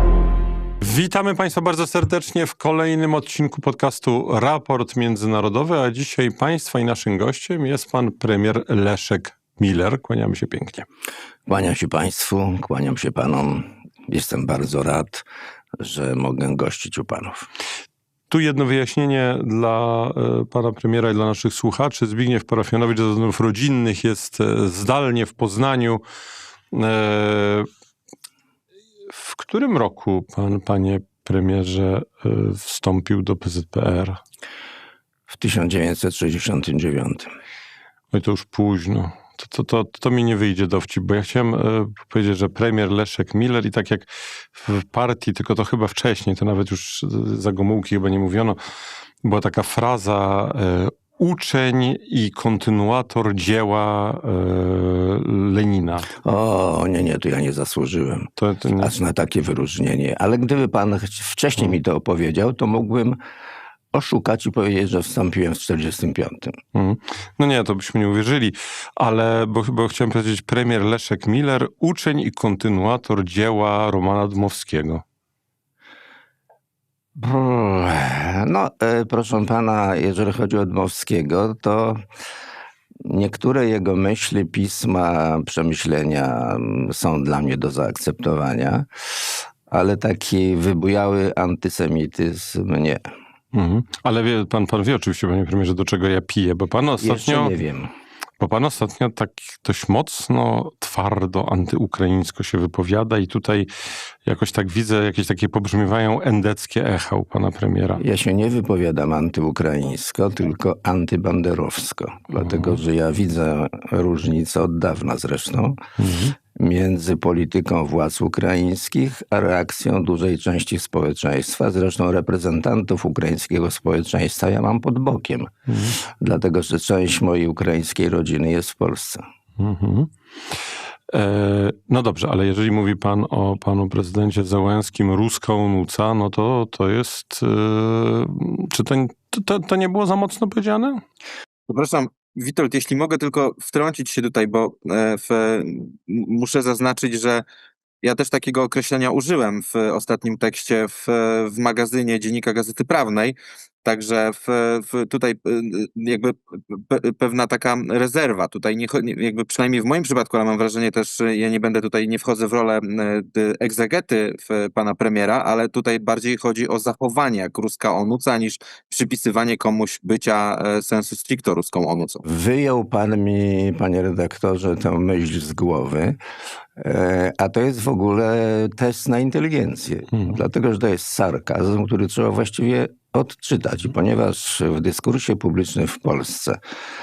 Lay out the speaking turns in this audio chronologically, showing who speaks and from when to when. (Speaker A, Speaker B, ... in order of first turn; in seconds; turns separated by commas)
Speaker A: 0.8-10.9, Speaker B: 11.5-15.2, Speaker B: 15.8-17.5, Speaker A: 18.3-26.0, Speaker A: 26.7-27.7, Speaker A: 29.1-34.2, Speaker B: 35.3-37.3, Speaker A: 38.1-48.6, Speaker A: 49.2-56.1, Speaker B: 56.2-63.2, Speaker A: 58.4-58.9, Speaker B: 63.9-66.6, Speaker A: 66.8-75.0, Speaker B: 77.2-82.0, Speaker B: 83.0-88.9, Speaker B: 89.7-93.1, Speaker A: 93.5-97.5, Speaker B: 97.0-97.9, Speaker A: 98.4-108.0, Speaker B: 108.0-115.8, Speaker A: 112.4-112.8, Speaker A: 116.0-116.3, Speaker B: 116.6-125.5, Speaker A: 125.7-126.0, Speaker B: 126.0-129.2, Speaker A: 129.6-130.1, Speaker A: 131.1-141.0, Speaker C: 141.7-147.4, Speaker C: 148.0-172.2, Speaker B: 172.2-176.2, Speaker B: 176.8-186.6